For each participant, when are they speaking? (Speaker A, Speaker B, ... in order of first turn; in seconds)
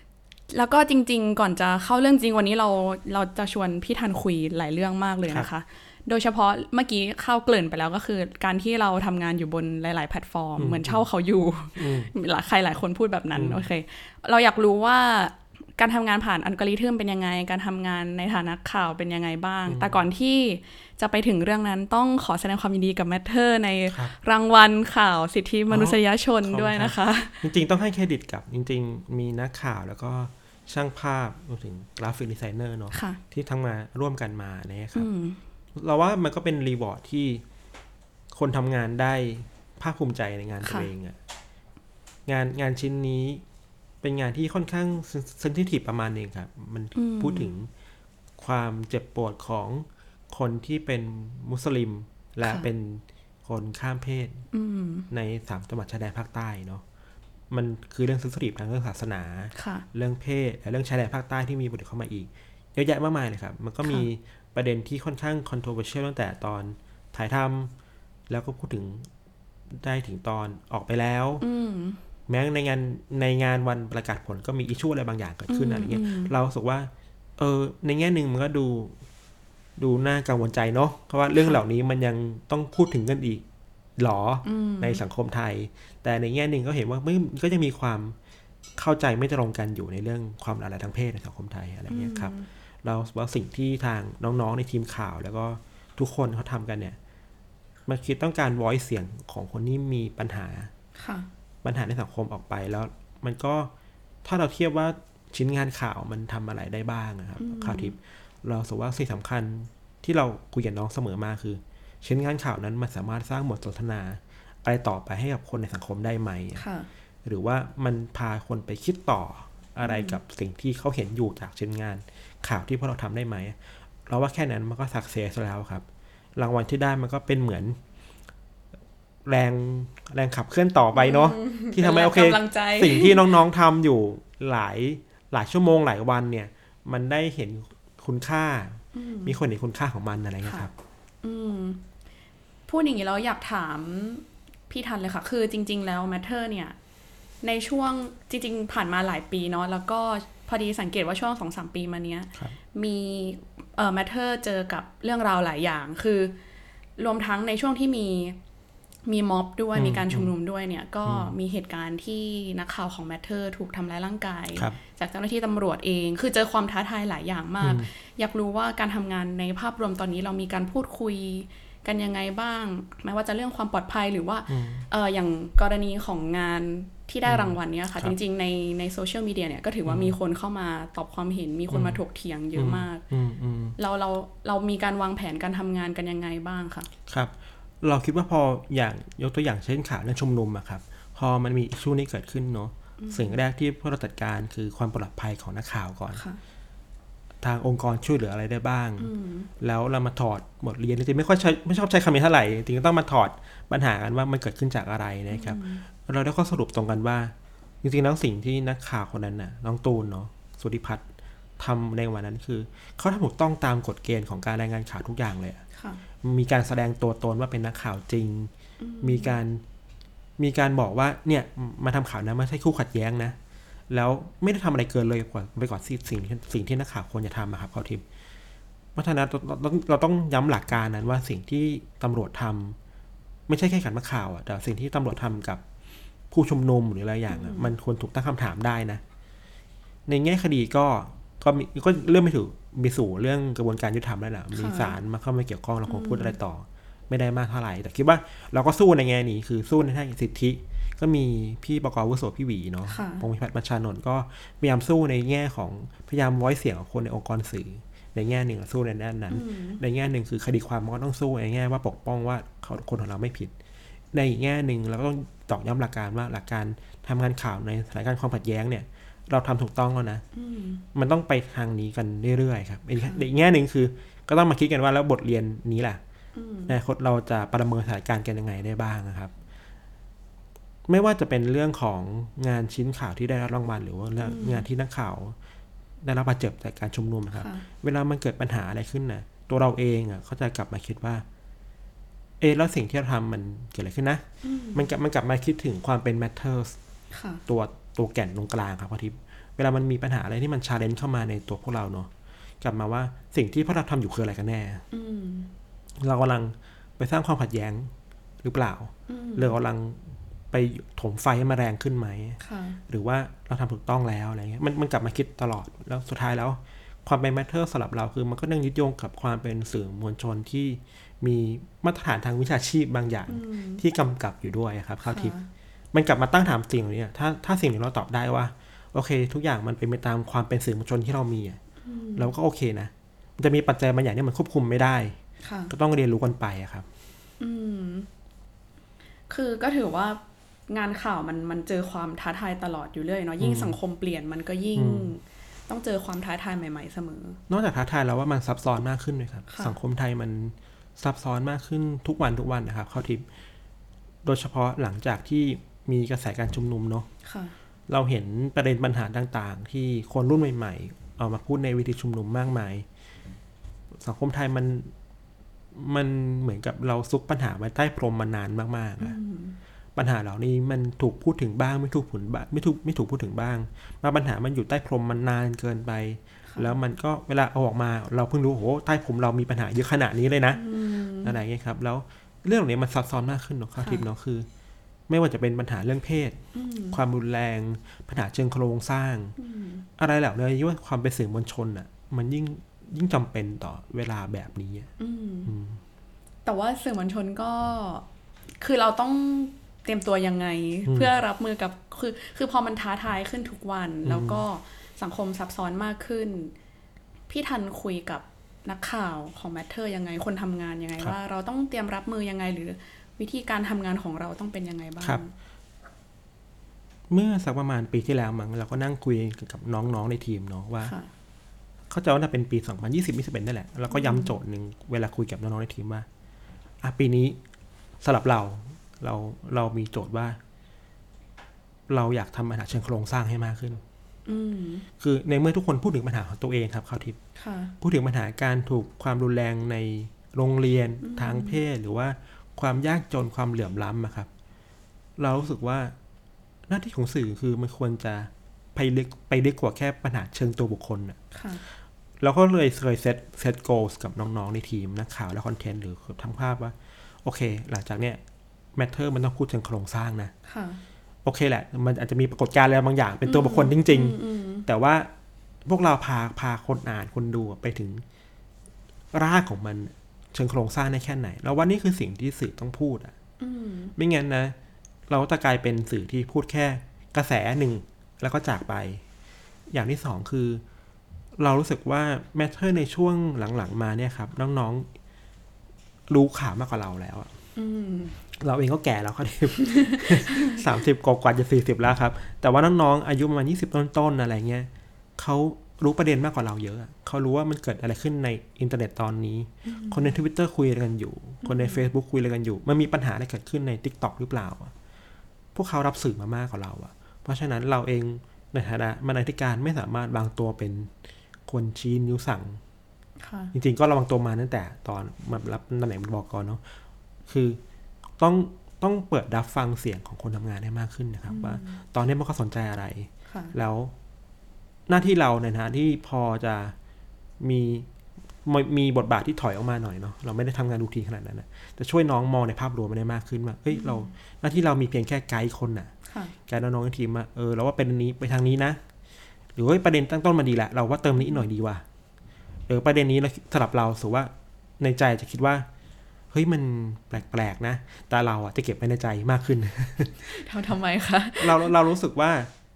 Speaker A: 0.5-27.4, 32.9-33.2, 34.9-35.4, 40.6-40.9, 47.0-47.5, 54.5-55.1, 59.5-59.9, 71.4-72.0, 75.5-76.3, 84.4-85.0, 91.9-92.5, 101.0-101.3, 107.4-108.0, 116.5-116.9, 119.8-120.2, 130.9-133.2, 138.9-139.4, 140.4-140.7, 141.2-141.8, 142.7-146.8, 147.4-156.3, 157.0-158.4, 159.1-183.0, 183.8-186.9, 193.0-193.4, 196.1-196.4, 199.0-199.5, 205.3-205.8, 215.7-216.0, 218.8-219.4, 237.3-237.7, 244.5-244.9, 245.8-246.4, 252.9-253.2, 259.3-259.8, 270.3-270.8, 273.0-273.2, 276.3-276.8, 284.2-284.6, 287.3-287.6, 294.4-294.9, 297.1-297.4, 304.9-305.5, 309.1-309.6, 312.4-312.8, 323.3-323.8, 325.0-325.5, 331.8-332.3, 335.4-335.7, 337.4-338.1, 339.3-347.4, 349.5-349.8, 357.2-357.5, 369.0-369.6, 376.5-376.7, 380.5-381.4, 383.8-384.0, 386.5-387.0, 389.4-389.9, 395.0-395.5, 396.4-398.1, 398.6-406.5, 407.3-415.3, 420.8-421.1, 423.9-424.3, 434.2-434.9, 437.4-437.7, 441.0-441.6, 451.3-451.6, 460.4-460.8, 463.2-464.6, 473.4-473.9, 487.6-488.2, 489.6-490.6, 499.6-500.1, 501.4-501.8, 513.2-513.5, 521.3-521.8, 523.3-523.5, 533.7-534.1, 536.1-536.3, 550.2-551.7
Speaker B: 10.6-11.0, 11.8-12.1, 13.3-13.7, 19.7-20.0, 25.7-35.1, 35.8-37.4, 38.3-41.2, 42.3-43.4, 44.0-47.7, 48.4-54.4, 55.1-56.8, 57.5-67.7, 68.3-69.1, 69.7-71.5, 72.3-79.0, 79.8-83.4, 84.0-88.2, 88.8-97.0, 97.9-100.7, 101.6-103.7, 104.2-116.6, 117.2-127.8, 129.2-140.7, 159.7-160.3, 161.0-161.3, 167.6-167.9, 174.5-174.8, 177.2-178.1, 179.8-180.1, 181.7-182.0, 182.6-183.8, 187.1-196.2, 197.4-211.1, 211.6-215.6, 216.2-219.6, 220.4-223.4, 223.9-228.0, 228.9-232.8, 233.5-235.6, 236.3-239.0, 240.1-263.5, 264.1-270.2, 270.9-276.0, 276.7-279.3, 280.9-285.4, 286.0-291.2, 292.4-296.8, 297.5-304.8, 306.0-325.3, 325.9-331.6, 332.1-335.2, 335.7-336.9, 343.4-343.8, 344.7-345.1, 347.5-353.2, 354.2-357.1, 357.9-362.9, 364.0-364.9, 365.7-369.1, 369.9-384.5, 385.1-386.4, 386.9-389.3, 390.0-394.9, 395.5-395.8, 400.9-401.1, 404.0-404.4, 417.1-420.9, 421.9-426.1, 426.8-427.4, 428.0-430.4, 431.9-433.8, 435.0-437.2, 437.8-444.3, 445.2-445.9, 446.7-451.2, 452.2-458.2, 458.8-460.3, 461.2-465.1, 465.6-468.0, 469.1-473.1, 474.0-474.5, 475.1-479.0, 479.7-480.6, 481.4-484.9, 486.1-487.3, 488.4-504.7, 505.5-510.9, 511.5-512.6, 513.5-516.6, 517.3-517.6, 518.2-523.9, 524.9-526.8, 527.4-527.9, 528.4-535.9, 536.5-538.8, 539.5-541.8, 542.7-545.7, 546.3-550.3, 551.4-552.5